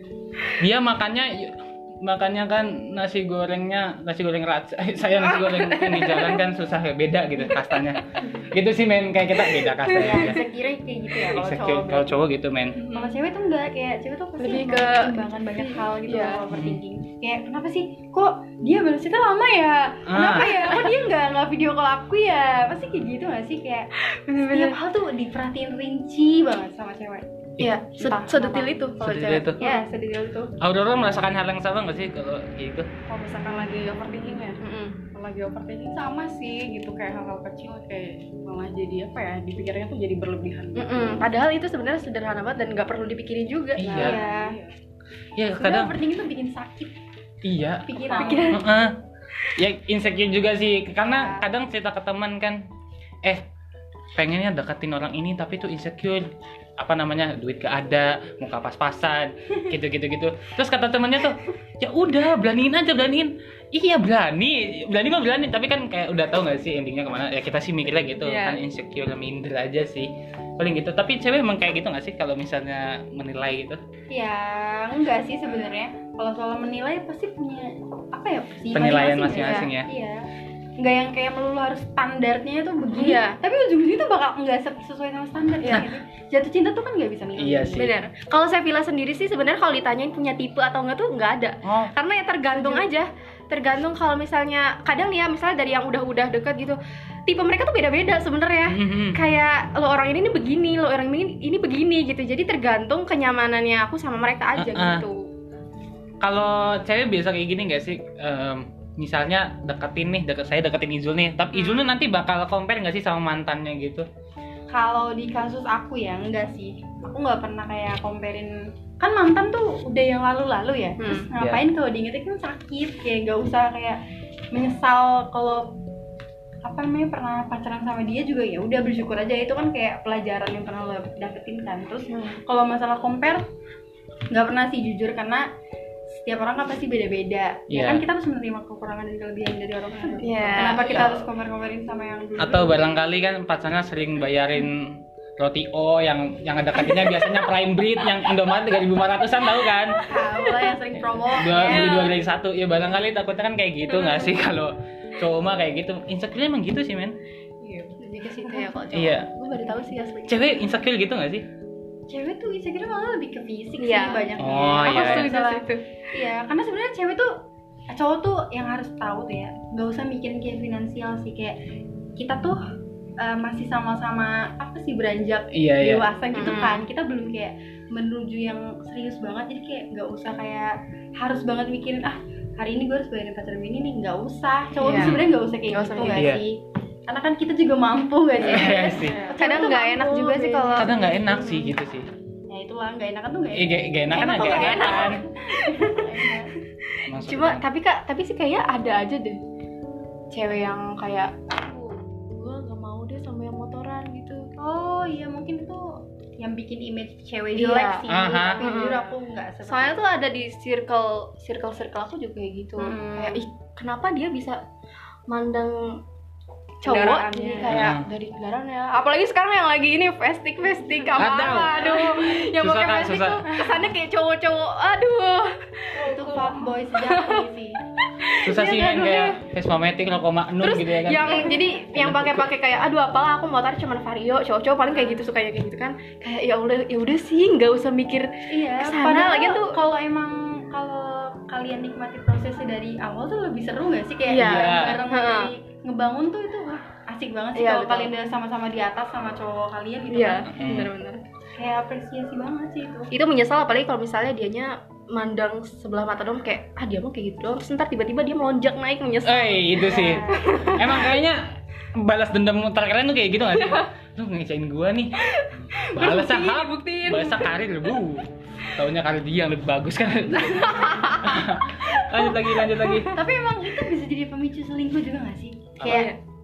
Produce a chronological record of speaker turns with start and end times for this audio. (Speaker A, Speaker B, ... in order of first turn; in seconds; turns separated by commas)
Speaker A: 0.6-10.4, Speaker B: 5.4-6.4, Speaker B: 9.6-10.4, Speaker C: 9.9-12.1, Speaker A: 11.2-12.8, Speaker B: 12.8-13.1, Speaker C: 12.9-27.2, Speaker B: 14.4-16.4, Speaker A: 16.5-16.8, Speaker A: 20.1-20.6, Speaker B: 20.6-20.9, Speaker B: 24.0-24.8, Speaker B: 27.6-29.8, Speaker C: 27.9-28.7, Speaker A: 29.0-29.6, Speaker C: 29.6-30.5, Speaker A: 30.6-32.9, Speaker D: 33.1-34.6, Speaker B: 34.6-35.0, Speaker D: 35.1-41.3, Speaker B: 40.7-43.9, Speaker A: 43.8-44.2, Speaker D: 43.8-44.7, Speaker C: 44.0-44.6, Speaker A: 45.4-45.9, Speaker C: 45.6-46.9, Speaker A: 47.4-49.0, Speaker C: 47.9-48.6, Speaker B: 48.1-48.6, Speaker A: 49.5-52.6, Speaker C: 51.0-51.5, Speaker A: 54.1-73.8, Speaker B: 68.2-68.6, Speaker C: 74.1-80.2, Speaker A: 78.7-79.9, Speaker B: 79.3-79.7, Speaker C: 80.8-87.9, Speaker B: 82.9-83.4, Speaker A: 87.4-87.9, Speaker B: 87.8-105.3, Speaker A: 91.6-91.9, Speaker C: 92.5-92.8, Speaker A: 98.7-99.2, Speaker A: 104.6-105.0, Speaker A: 106.2-114.1, Speaker C: 114.7-124.0, Speaker B: 121.0-121.3, Speaker A: 121.4-121.6, Speaker C: 124.5-125.8, Speaker C: 126.6-133.4, Speaker B: 132.1-132.4, Speaker C: 134.3-135.5, Speaker C: 136.1-142.8, Speaker A: 137.7-138.0, Speaker D: 140.0-140.7, Speaker B: 140.2-141.2, Speaker A: 140.9-141.2, Speaker A: 142.4-150.0, Speaker B: 146.9-147.3, Speaker B: 149.6-150.7, Speaker C: 150.0-152.1, Speaker A: 151.3-157.2, Speaker B: 151.6-152.1, Speaker B: 153.9-154.3, Speaker D: 157.6-158.7, Speaker B: 158.0-160.4, Speaker A: 158.9-159.3, Speaker A: 160.2-161.4, Speaker C: 162.1-171.6, Speaker B: 163.8-164.3, Speaker A: 164.4-165.3, Speaker B: 164.8-165.8, Speaker C: 172.2-172.6, Speaker C: 173.2-191.4, Speaker A: 175.5-176.0, Speaker B: 176.3-176.8, Speaker B: 184.8-186.3, Speaker A: 184.9-185.3, Speaker A: 186.1-186.4, Speaker A: 188.4-189.2, Speaker D: 188.9-189.3, Speaker B: 189.3-191.7, Speaker A: 190.8-192.1, Speaker C: 192.5-196.5, Speaker A: 193.5-195.2, Speaker B: 194.1-196.0, Speaker B: 196.8-199.4, Speaker A: 197.1-197.6, Speaker B: 200.3-204.5, Speaker C: 204.6-210.0, Speaker B: 207.5-208.0, Speaker A: 208.1-208.6, Speaker B: 208.6-214.6, Speaker C: 212.8-213.4, Speaker B: 215.3-216.0, Speaker B: 216.8-227.4, Speaker D: 216.8-217.8, Speaker A: 217.7-218.1, Speaker A: 221.2-221.9, Speaker C: 221.9-222.2, Speaker A: 222.5-223.5, Speaker C: 225.9-227.8, Speaker B: 228.0-229.4, Speaker A: 228.4-232.5, Speaker B: 230.6-239.8, Speaker C: 234.9-235.2, Speaker C: 238.5-250.5, Speaker B: 244.3-245.5, Speaker A: 244.4-245.0, Speaker B: 247.5-248.1, Speaker B: 250.1-251.2, Speaker A: 250.5-250.9, Speaker C: 251.6-253.1, Speaker B: 253.1-261.2, Speaker A: 259.2-273.1, Speaker C: 259.7-260.8, Speaker B: 263.5-263.9, Speaker B: 265.2-267.5, Speaker B: 270.3-273.2, Speaker C: 273.1-276.1, Speaker A: 275.8-276.1, Speaker B: 275.9-276.2